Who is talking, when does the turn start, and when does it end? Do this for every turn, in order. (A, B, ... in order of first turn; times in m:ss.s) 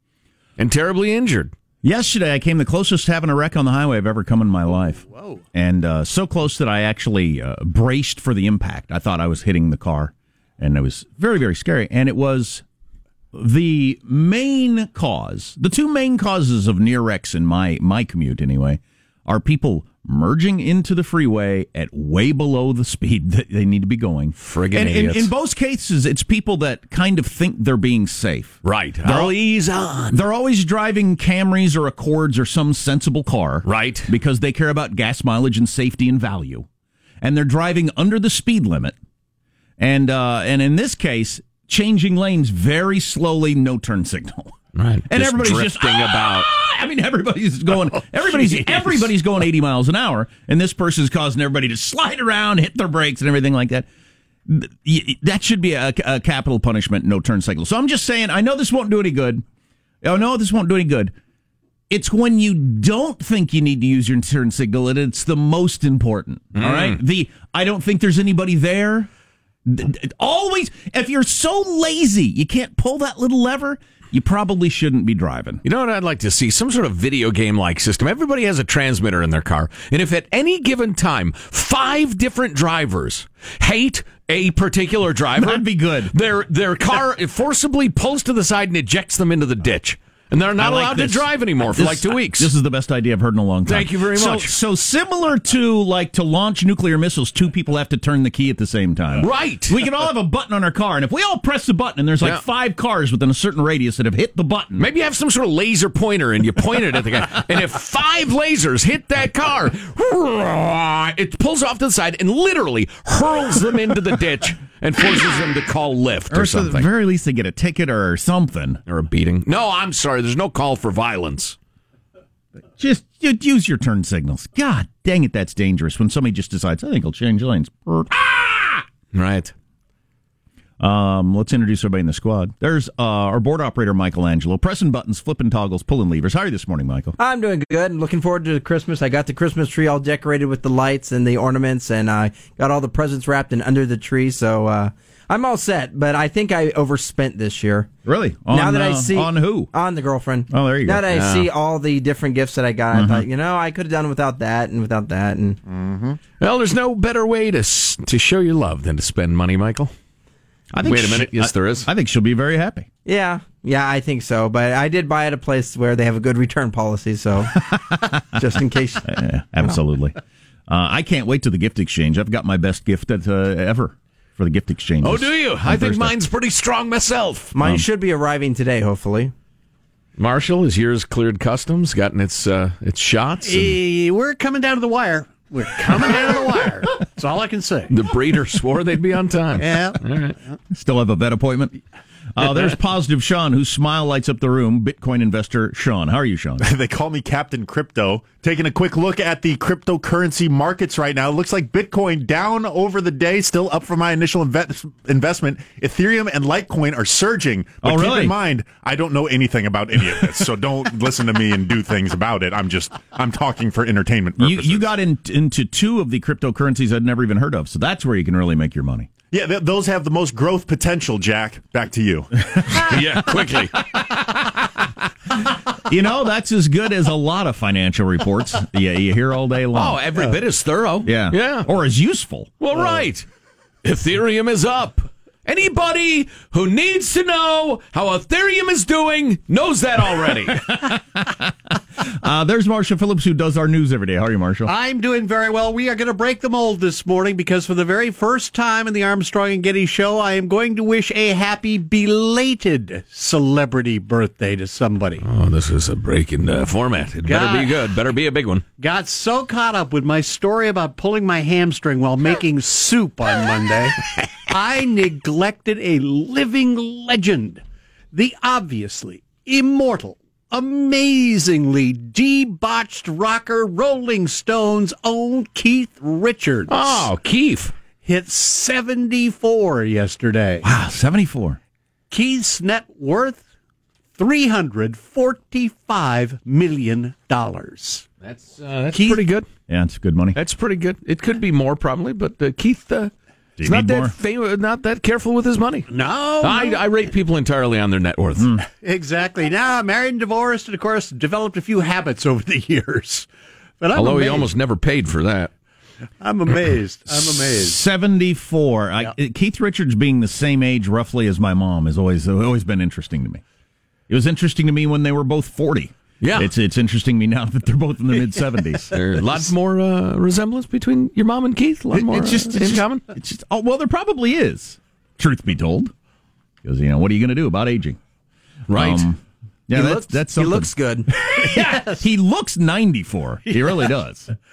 0:00.6-0:01.5 A
0:01.8-0:12.6 B
0:05.1-0:05.4 C
0:13.3-0:29.4 B
0:24.4-0:25.3 A
0:28.6-0:30.2 A
0:30.1-0:36.7 B
0:33.6-0:34.1 A
0:37.2-0:39.0 B
0:39.8-0:44.6 B
0:44.8-0:46.5 A
0:45.1-0:53.9 B
0:54.5-0:59.4 B
1:00.0-1:01.1 B
1:01.9-1:09.1 B
1:06.6-1:07.0 A
1:09.7-1:15.6 B
1:15.6-1:32.5 A
1:25.4-1:26.1 B
1:30.6-1:44.9 B
1:33.7-1:34.5 A
1:39.2-1:39.8 A
1:44.8-1:56.9 A
1:56.3-1:58.8 B
1:58.9-2:01.6 A
2:02.8-2:08.8 B
2:09.1-2:09.5 A
2:10.8-2:17.2 B
2:17.2-2:27.9 D
2:28.1-2:29.7 B
2:28.5-2:35.6 D
2:30.5-2:31.1 B
2:31.1-2:31.5 A
2:32.9-2:33.3 B
2:35.7-2:36.2 E
2:36.4-2:39.9 A
2:40.7-2:42.9 B
2:40.8-2:41.9 A
2:43.1-2:49.7 D
2:49.0-2:50.2 B
2:50.7-2:56.1 B
2:55.0-2:57.5 A
2:57.5-2:59.3 D
2:57.6-2:57.9 B
3:00.2-3:03.8 A
3:03.4-3:07.9 C
3:07.9-3:10.4 A
3:09.6-3:10.0 C
3:10.7-3:11.8 B
3:12.4-3:16.6 B
3:16.6-3:34.9 E
3:27.8-3:28.4 B
3:34.4-3:39.1 B
3:39.3-3:42.6 E
3:42.7-3:43.8 A
3:43.8-3:44.3 B
3:45.7-3:50.0 B
3:49.7-3:51.7 A
3:51.0-3:52.6 B
3:52.6-3:53.3 A
3:53.8-4:00.8 A
4:00.7-4:04.7 B
4:04.7-4:15.2 C
4:15.2-4:18.6 A
4:17.2-4:17.8 C
4:18.8-4:27.6 C
4:28.1-4:37.1 C
4:36.7-4:37.7 A
4:38.0-4:40.6 C
4:40.6-4:41.6 B
4:42.1-4:43.4 C
4:44.2-4:48.1 C
4:48.2-4:49.5 A
4:48.9-4:49.2 C
4:49.7-4:50.4 B
4:50.4-4:58.5 A
4:53.6-4:54.1 B
4:55.9-4:57.0 C
4:58.4-4:58.7 B
4:58.8-5:03.3 C
5:03.8-5:04.5 C
5:03.9-5:05.5 A
5:06.2-5:07.8 C
5:07.3-5:13.4 B
5:14.1-5:18.9 B
5:16.2-5:16.5 A
5:18.9-5:23.0 A
5:21.9-5:25.9 B
5:26.6-5:28.0 B
5:28.7-5:29.1 A
5:28.7-5:34.3 B
5:29.7-5:31.1 D
5:31.4-5:32.0 C
5:33.5-5:33.9 C